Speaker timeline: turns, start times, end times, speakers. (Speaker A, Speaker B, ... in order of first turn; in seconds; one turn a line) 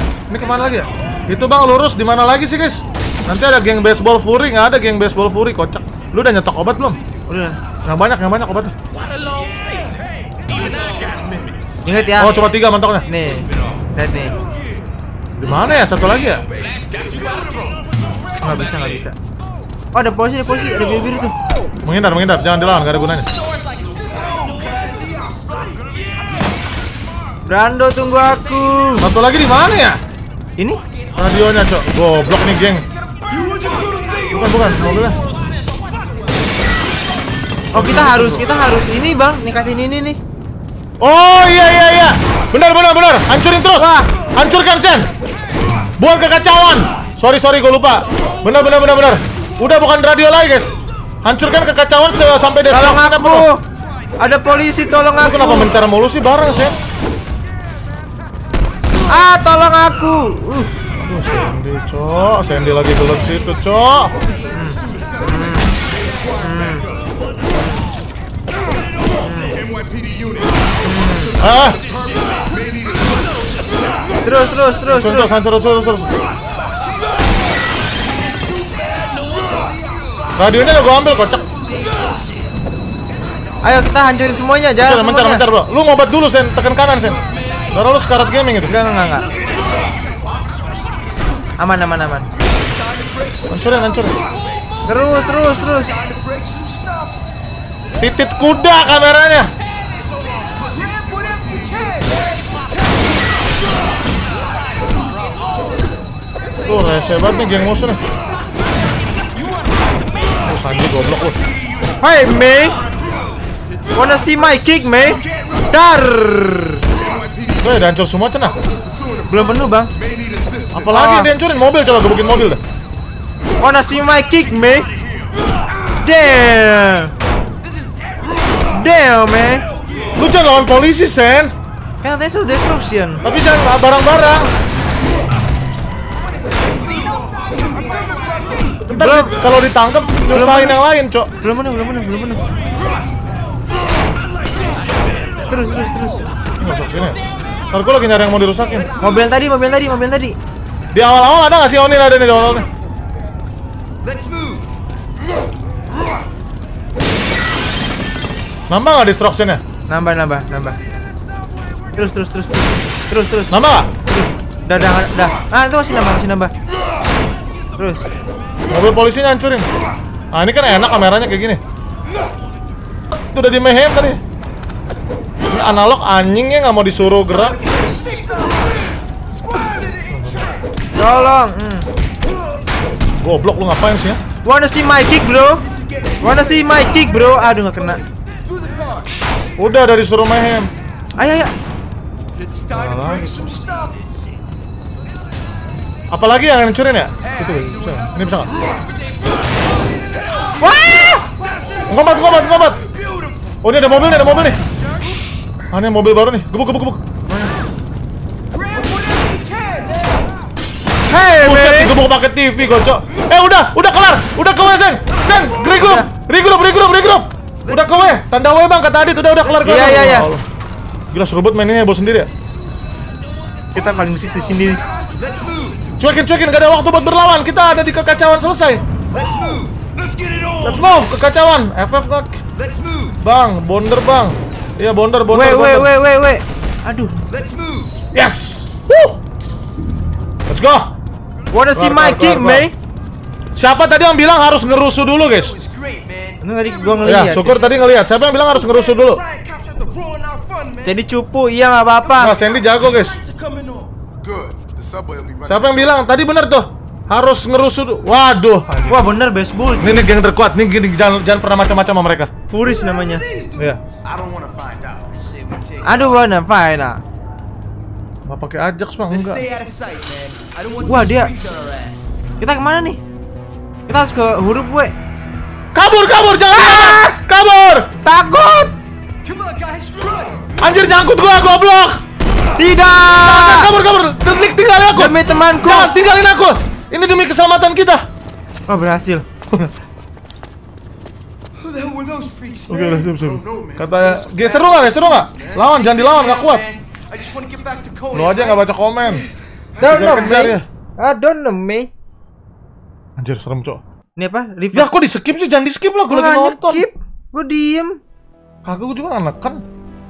Speaker A: 0.3-7.0
Speaker B: 7.3-7.6
Speaker A: 7.9-8.7
Speaker C: 8.9-12.1
Speaker B: 11.8-12.5
Speaker A: 12.2-13.1
Speaker B: 13.1-14.3
Speaker C: 13.4-13.8
Speaker A: 15.4-16.4
Speaker C: 16.3-19.0
Speaker B: 18.4-19.1
Speaker B: 19.9-21.3
Speaker A: 21.8-23.3
Speaker D: 23.2-25.8
Speaker C: 24.0-26.2
Speaker B: 27.5-29.1
Speaker A: 29.0-30.0
Speaker A: 31.2-32.9
Speaker D: 32.7-36.3
Speaker C: 33.3-36.3
Speaker A: 34.3-35.2
Speaker B: 37.7-40.2
Speaker A: 37.7-38.5
Speaker A: 41.0-45.1
Speaker B: 43.7-44.1
Speaker A: 46.0-53.5
Speaker B: 52.7-53.6
Speaker B: 54.2-55.7
Speaker A: 55.1-56.8
Speaker B: 59.1-60.7
Speaker A: 61.0-64.1
Speaker B: 64.5-65.7
Speaker B: 66.4-66.9
Speaker B: 69.2-69.6
Speaker C: 69.6-74.3
Speaker B: 70.8-71.3
Speaker A: 71.4-71.8
Speaker B: 74.2-75.3
Speaker A: 74.9-76.1
Speaker C: 78.4-80.3
Speaker A: 80.3-81.4
Speaker B: 83.6-85.4
Speaker A: 84.8-87.2
Speaker A: 87.7-88.7
Speaker B: 88.7-89.3
Speaker C: 89.3-90.4
Speaker B: 91.6-92.3
Speaker D: 92.5-97.2
Speaker A: 93.5-94.1
Speaker B: 94.8-96.0
Speaker A: 98.0-99.5
Speaker D: 100.3-103.0
Speaker A: 106.7-108.0
Speaker D: 109.2-110.9
Speaker A: 110.4-111.4
Speaker B: 112.0-112.8
Speaker B: 113.9-116.8
Speaker D: 114.9-115.2
Speaker E: 116.9-117.7
Speaker A: 117.6-118.5
Speaker E: 118.7-120.9
Speaker B: 119.3-119.9
Speaker A: 120.7-122.6
Speaker B: 120.9-121.3
Speaker B: 123.6-124.9
Speaker C: 125.0-125.3
Speaker B: 126.0-127.1
Speaker B: 128.7-129.7
Speaker A: 130.1-131.5
Speaker B: 132.0-133.2
Speaker A: 133.2-134.5
Speaker D: 136.3-138.8
Speaker E: 136.8-138.8
Speaker A: 138.8-141.3
Speaker B: 138.9-139.3
Speaker B: 140.3-140.8
Speaker B: 141.4-142.4
Speaker C: 145.0-145.5
Speaker B: 145.5-146.3
Speaker A: 146.6-147.2
Speaker A: 147.7-148.9
Speaker D: 148.7-149.3
Speaker B: 149.0-150.3
Speaker A: 150.9-152.7
Speaker D: 154.0-154.7
Speaker A: 158.7-159.6
Speaker B: 159.9-160.8
Speaker B: 161.9-166.5
Speaker A: 163.5-163.9
Speaker B: 167.8-168.1
Speaker A: 168.7-169.7
Speaker A: 170.3-171.6
Speaker A: 173.3-174.2
Speaker A: 175.5-177.6
Speaker D: 177.3-180.4
Speaker E: 178.0-178.6
Speaker E: 179.3-180.4
Speaker B: 180.9-181.8
Speaker A: 183.2-184.2
Speaker B: 184.4-185.6
Speaker D: 185.6-189.1
Speaker B: 186.2-188.0
Speaker A: 189.6-190.7
Speaker B: 191.2-191.5
Speaker D: 192.4-194.0
Speaker A: 192.7-193.5
Speaker A: 196.1-198.5
Speaker D: 197.2-198.4
Speaker B: 200.6-201.2
Speaker D: 201.4-203.3
Speaker A: 201.9-202.8
Speaker A: 203.6-204.6
Speaker D: 204.0-205.0
Speaker A: 205.7-207.0
Speaker D: 208.5-210.4
Speaker B: 211.1-211.9
Speaker A: 211.3-220.4
Speaker B: 215.7-216.1
Speaker D: 217.6-218.2
Speaker B: 219.6-220.3
Speaker D: 219.6-220.0
Speaker A: 221.1-222.3
Speaker B: 223.7-224.8
Speaker D: 224.7-225.9
Speaker A: 226.0-228.8
Speaker D: 229.1-229.8
Speaker C: 229.9-231.0
Speaker A: 230.6-232.4
Speaker D: 232.5-233.2
Speaker A: 233.2-235.9
Speaker B: 235.3-237.1
Speaker D: 237.2-238.0
Speaker A: 238.1-239.2
Speaker A: 240.5-240.9
Speaker B: 241.5-242.7
Speaker A: 241.7-242.7
Speaker A: 243.6-245.5
Speaker D: 245.3-251.0
Speaker B: 246.4-247.6
Speaker A: 247.0-249.2
Speaker B: 250.8-252.3
Speaker D: 252.0-253.9
Speaker A: 252.2-253.1
Speaker E: 254.2-255.9
Speaker A: 255.4-259.1
Speaker B: 258.9-260.1
Speaker A: 259.8-262.3
Speaker B: 262.5-263.2
Speaker D: 262.6-263.6
Speaker E: 264.0-265.2
Speaker D: 265.1-266.2
Speaker B: 265.8-267.0
Speaker A: 268.3-269.4
Speaker D: 269.1-271.9
Speaker B: 270.8-271.3
Speaker B: 272.4-273.0
Speaker B: 273.9-274.9
Speaker A: 275.7-277.9
Speaker B: 276.5-277.2
Speaker B: 278.0-278.7
Speaker D: 279.2-280.5
Speaker A: 280.6-282.0
Speaker B: 282.6-283.7
Speaker A: 283.2-288.0
Speaker B: 284.9-285.9
Speaker B: 288.7-289.2
Speaker D: 291.6-293.1
Speaker A: 292.7-296.6
Speaker E: 293.0-295.7
Speaker D: 295.6-299.2
Speaker A: 298.1-299.2
Speaker D: 299.8-300.4
Speaker B: 299.8-301.9
Speaker A: 299.8-300.6
Speaker A: 303.2-303.8
Speaker B: 304.2-304.9
Speaker A: 304.7-306.9
Speaker B: 306.1-308.0
Speaker A: 308.6-309.6